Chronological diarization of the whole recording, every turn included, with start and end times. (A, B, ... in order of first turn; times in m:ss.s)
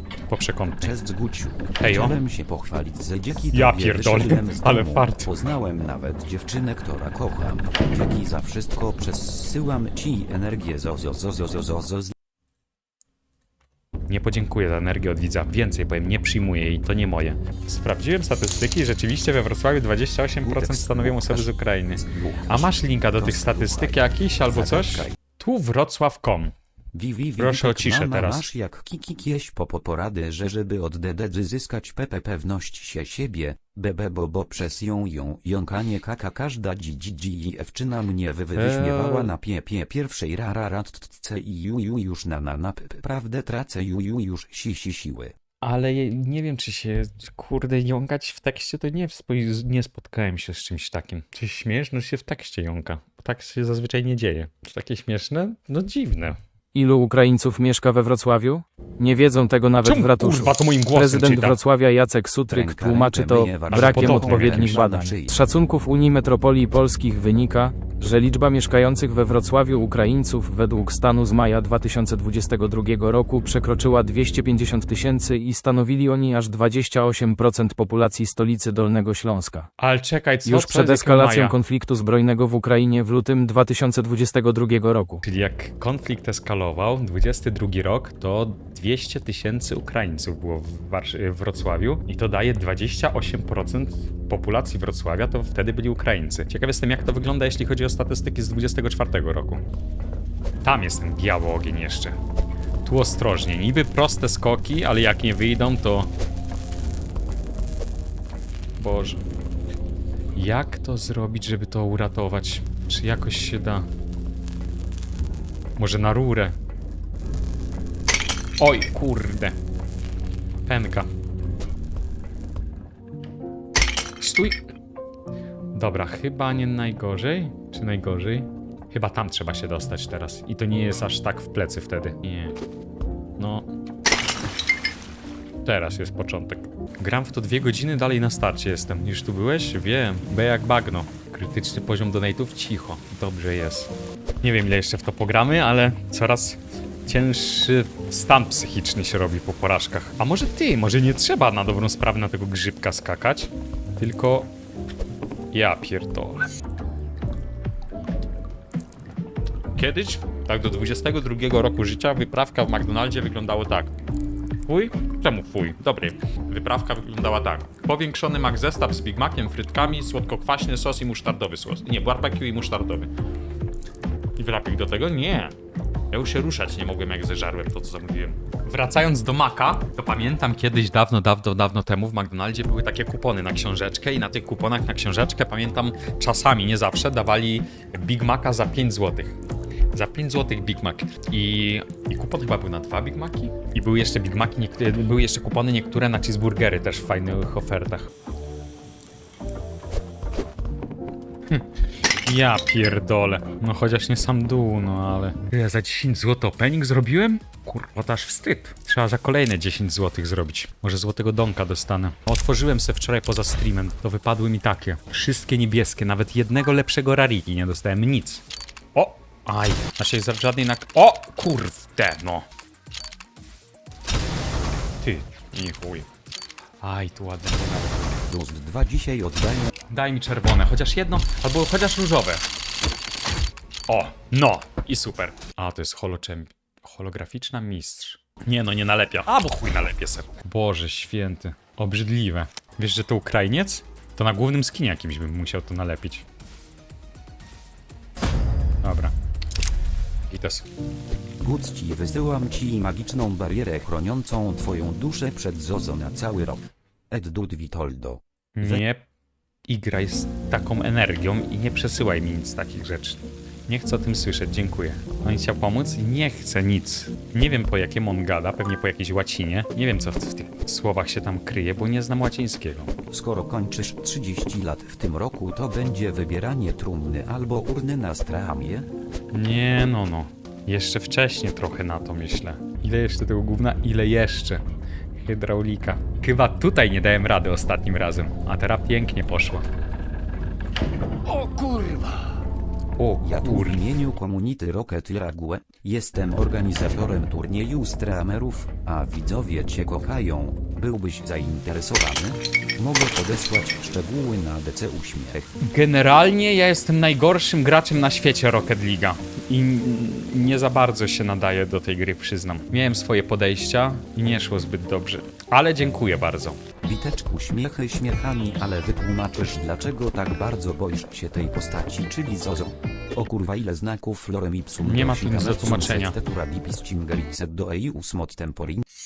0:00.3-0:01.0 A
0:00.8-0:12.2 B
0:01.8-0:02.2 A
0:03.5-0:05.3 A
0:14.1-0:26.5 A
0:20.4-0:25.1 B
0:26.9-0:45.3 B
0:27.4-0:28.5 A
0:38.5-0:39.3 A
0:45.6-0:56.4 A
0:56.7-1:19.7 C
0:59.8-1:01.6 A
1:02.5-1:05.4 B
1:03.7-1:04.8 A
1:19.8-1:21.6 A
1:20.4-1:25.2 C
1:25.2-1:39.6 A
1:40.6-1:42.2 A
1:42.8-1:46.1 A
1:48.8-1:49.2 A
1:50.3-1:53.8 A
1:55.8-1:56.6 A
1:58.6-1:59.5 A
2:00.7-2:01.1 A
2:04.2-2:04.6 A
2:05.7-2:12.5 A
2:13.4-2:13.7 A
2:15.6-2:23.9 A
2:24.4-2:34.5 A
2:35.5-2:36.5 A
2:39.7-2:43.9 A
2:44.6-2:53.1 A
2:54.4-2:55.5 A
2:56.1-3:09.4 A
3:09.9-3:18.1 A
3:22.2-3:38.4 A
3:38.9-3:42.4 A
3:45.0-3:46.1 A
3:46.8-3:48.2 A
3:48.3-3:49.7 B
3:49.9-3:52.4 A
3:53.9-4:06.2 A
4:08.8-4:09.1 A
4:10.3-4:10.7 A
4:11.4-4:18.8 B
4:18.5-4:19.0 A
4:19.7-4:32.9 A
4:33.1-4:38.9 B
4:39.3-4:44.6 A
4:45.2-4:49.6 A
4:51.3-4:52.1 A
4:53.0-4:53.9 A
4:53.2-5:05.5 B
5:05.6-5:16.6 A
5:16.8-5:28.8 B
5:24.8-5:26.1 A